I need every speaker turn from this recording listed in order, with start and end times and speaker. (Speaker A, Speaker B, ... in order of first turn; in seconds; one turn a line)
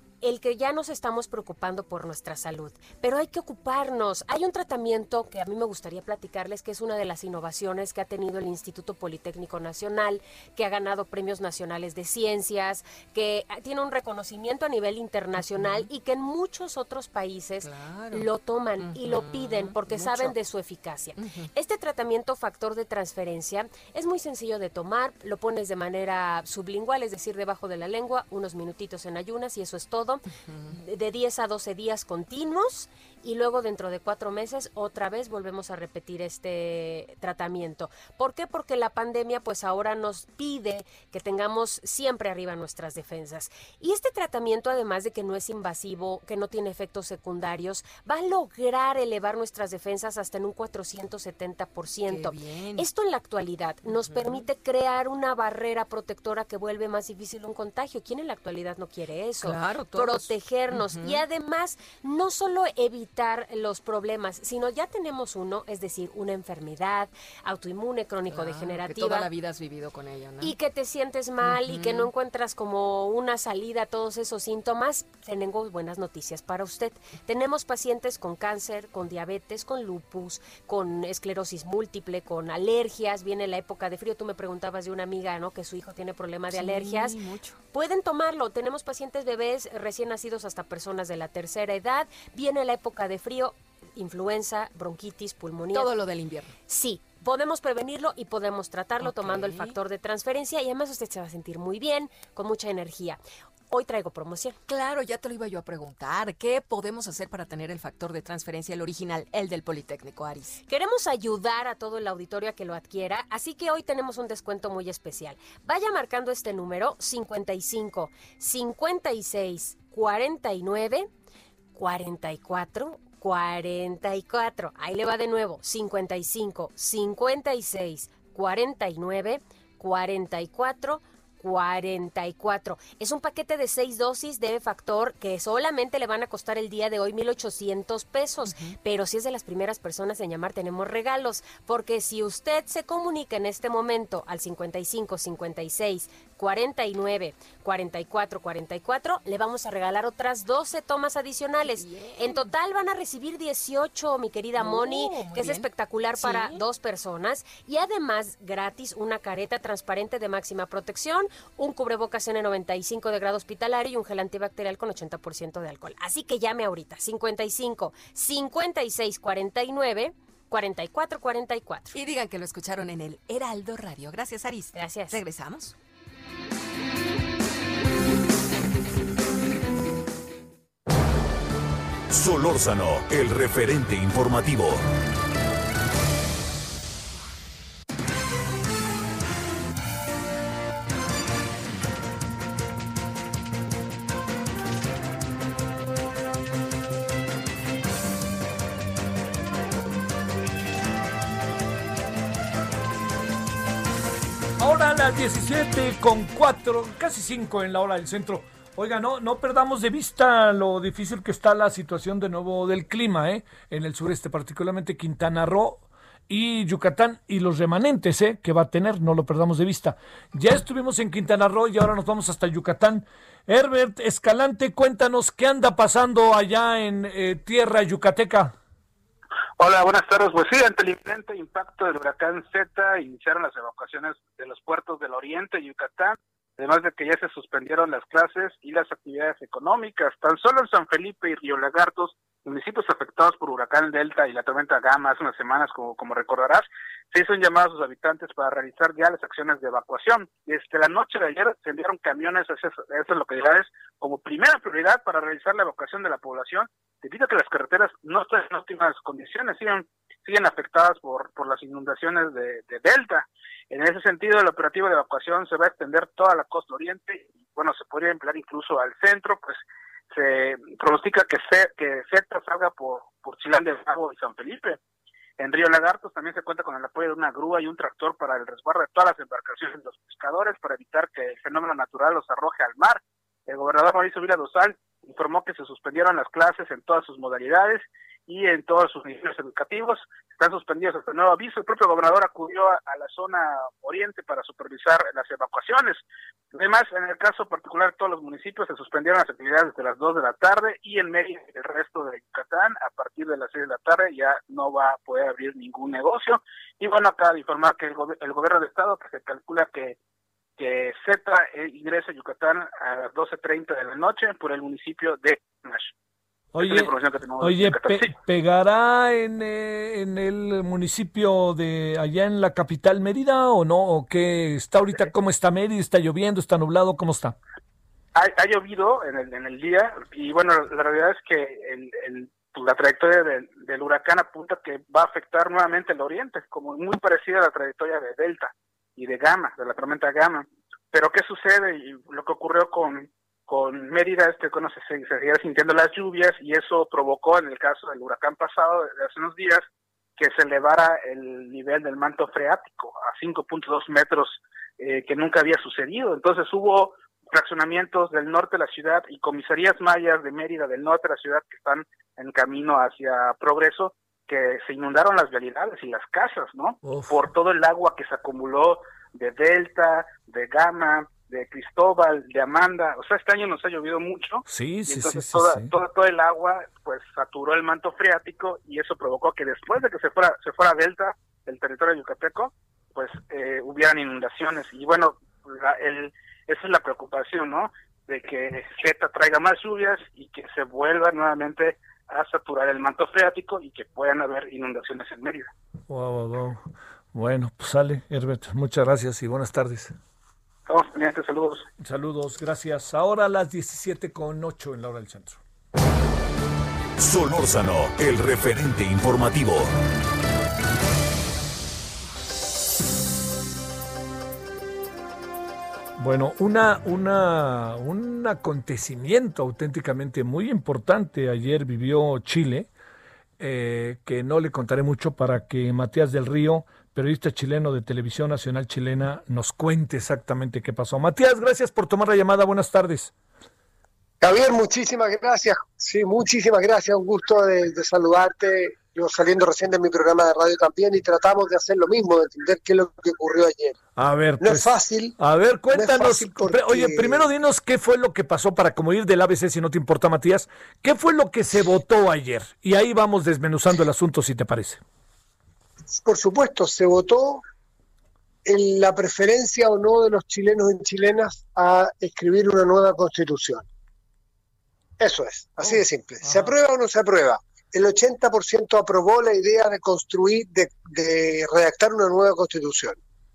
Speaker A: 0.2-69.3
Speaker B: 15.4-15.9
Speaker B: 17.6-20.4
Speaker B: 21.2-21.5
Speaker B: 30.4-30.8
Speaker B: 52.0-52.9
Speaker B: 53.8-54.5
Speaker B: 59.4-61.2
Speaker B: 68.3-70.5
Speaker A: 70.4-87.2
Speaker B: 71.4-72.1
Speaker B: 86.5-87.6
Speaker A: 87.7-95.9
Speaker B: 95.7-96.6
Speaker A: 96.7-104.6
Speaker B: 99.0-99.8
Speaker B: 104.7-110.6
Speaker A: 110.7-121.1
Speaker A: 121.8-171.9
Speaker B: 138.4-138.8
Speaker B: 151.6-152.5
Speaker B: 154.6-156.7
Speaker B: 171.9-175.7
Speaker A: 174.8-175.2
Speaker C: 182.1-184.8
Speaker D: 204.6-228.5
Speaker E: 229.6-269.6
Speaker E: 270.1-274.8
Speaker E: 275.4-296.0
Speaker E: 296.5-310.0
Speaker E: 310.6-315.9
Speaker D: 316.5-327.4
Speaker E: 316.6-318.1
Speaker E: 328.1-349.6
Speaker E: 350.2-395.5
Speaker D: 366.8-367.2
Speaker D: 374.5-375.7
Speaker D: 395.9-399.9
Speaker E: 400.7-401.7
Speaker D: 401.8-405.4
Speaker C: 407.0-409.8
Speaker D: 416.0-422.7
Speaker D: 423.4-433.1
Speaker F: 434.2-443.8
Speaker D: 444.0-454.8
Speaker F: 444.4-445.2
Speaker F: 445.7-447.3
Speaker F: 455.9-457.4
Speaker F: 458.4-463.7
Speaker F: 465.0-473.0
Speaker D: 465.6-466.5